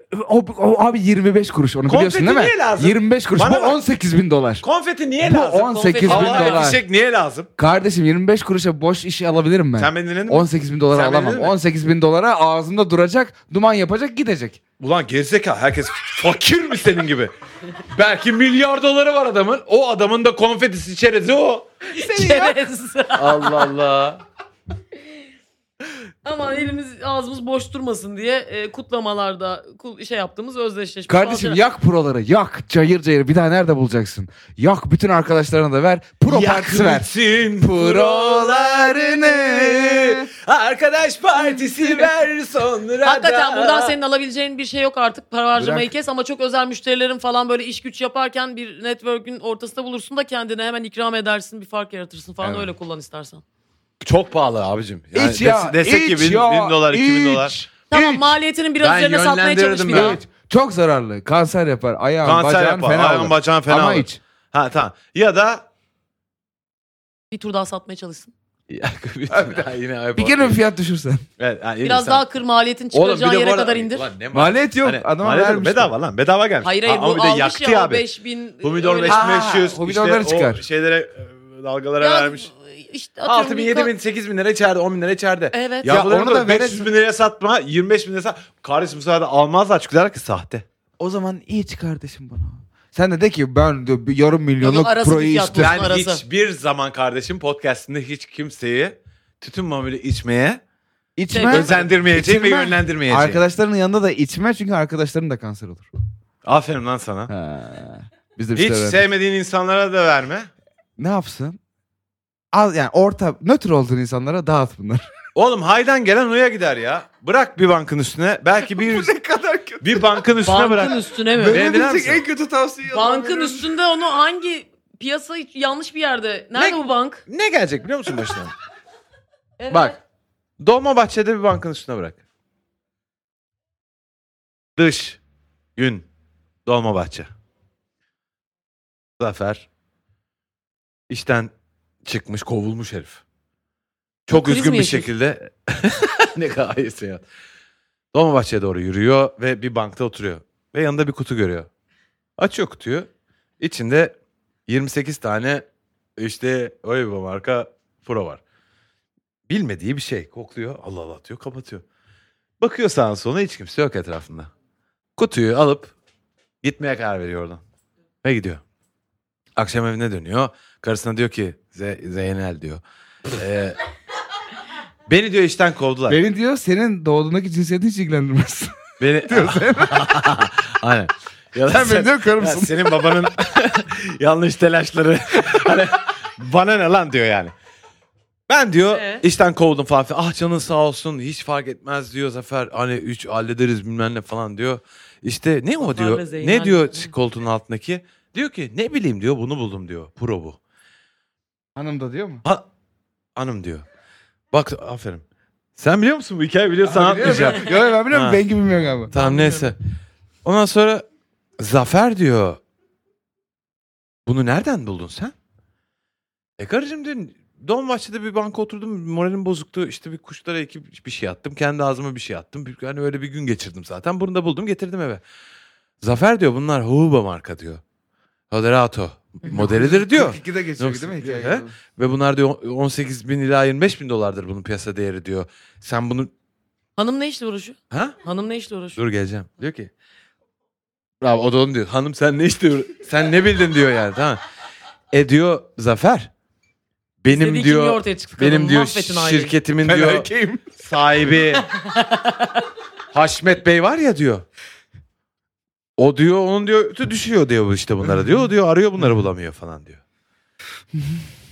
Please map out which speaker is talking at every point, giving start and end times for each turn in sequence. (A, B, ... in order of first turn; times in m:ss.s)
0:00.1-0:04.6 A
0:01.9-0:03.8 B
0:04.6-0:07.5 B
0:05.2-0:06.8 A
0:05.8-0:06.7 C
0:07.6-0:14.6 A
0:09.8-0:11.6 B
0:14.8-0:17.3 B
0:17.9-0:21.7 B
0:22.0-0:22.6 A
0:22.0-0:23.7 C
0:23.2-0:24.2 B
0:26.2-0:31.6 C
0:31.1-0:40.3 A
0:36.3-0:44.0 B
0:41.4-0:42.1 A
0:43.0-0:53.4 C
0:45.6-0:45.9 A
0:52.4-0:52.7 A
0:54.0-0:57.6 B
0:55.2-0:58.3 A
0:57.9-1:00.2 C
0:58.8-1:00.2 B
0:59.9-1:04.2 A
1:02.2-1:05.6 B
1:07.3-1:08.3 C
1:08.7-1:10.6 B
1:09.3-1:11.2 A
1:11.4-1:12.2 B
1:11.8-1:14.1 C
1:12.9-1:18.0 B
1:14.3-1:15.9 A
1:16.6-1:19.2 C
1:18.6-1:22.5 B
1:19.1-1:20.6 A
1:22.0-1:23.9 C
1:23.3-1:30.6 B
1:25.5-1:25.9 C
1:25.8-1:26.9 A
1:31.0-1:35.8 A
1:34.6-1:36.2 C
1:35.6-1:40.6 B
1:41.2-1:45.9 A
1:41.3-1:41.9 C
1:41.4-1:43.4 B
1:46.4-1:47.3 B
1:47.3-1:49.0 A
1:48.6-1:50.5 B
1:51.0-1:51.6 A
1:52.5-1:55.1 A
1:55.4-1:59.1 B
1:58.7-2:00.2 A
1:59.8-2:02.2 B
2:00.4-2:01.7 C
2:01.4-2:03.7 A
2:02.9-2:07.2 C
2:06.6-2:08.5 B
2:09.6-2:10.0 C
2:10.6-2:12.2 B
2:14.8-2:15.2 B
2:15.8-2:16.1 B
2:16.7-2:17.3 B
2:19.2-2:19.7 B
2:21.1-2:21.5 B
2:22.1-2:23.2 B
2:24.3-2:27.2 B
2:24.3-2:25.1 C
2:28.1-2:31.7 B
2:32.4-2:33.1 B
2:33.6-2:34.2 B
2:34.7-2:35.6 B
2:36.2-2:38.4 B
2:39.5-2:41.8 B
2:42.6-2:44.5 B
2:45.2-2:45.9 B
2:46.6-2:47.6 B
2:48.2-2:48.6 B
2:49.6-2:52.8 B
2:53.4-2:53.8 B
2:55.1-2:56.2 B
2:56.1-3:00.1 A
2:59.0-3:07.5 B
3:01.7-3:03.3 A
3:08.5-3:20.6 B
3:08.9-3:09.2 C
3:15.8-3:17.1 C
3:21.8-3:22.4 A
3:23.4-3:23.8 B
3:24.5-3:25.2 B
3:25.8-3:28.4 B
3:26.9-3:29.1 A
3:29.1-3:29.7 C
3:29.1-3:29.8 B
3:30.4-3:31.0 B
3:31.6-3:32.6 B
3:34.3-3:35.3 B
3:36.6-3:45.2 B
3:46.0-3:47.8 B
3:48.5-3:56.3 B
3:49.5-3:51.7 A
3:57.0-3:59.0 C
3:57.9-3:58.2 B
3:59.0-3:59.9 B
4:01.2-4:04.4 B
4:05.1-4:06.3 B
4:07.2-4:11.6 B
4:07.3-4:09.6 C
4:09.8-4:10.7 A
4:11.6-4:12.7 C
4:13.1-4:14.4 B
4:16.0-4:20.0 B
4:21.0-4:21.3 A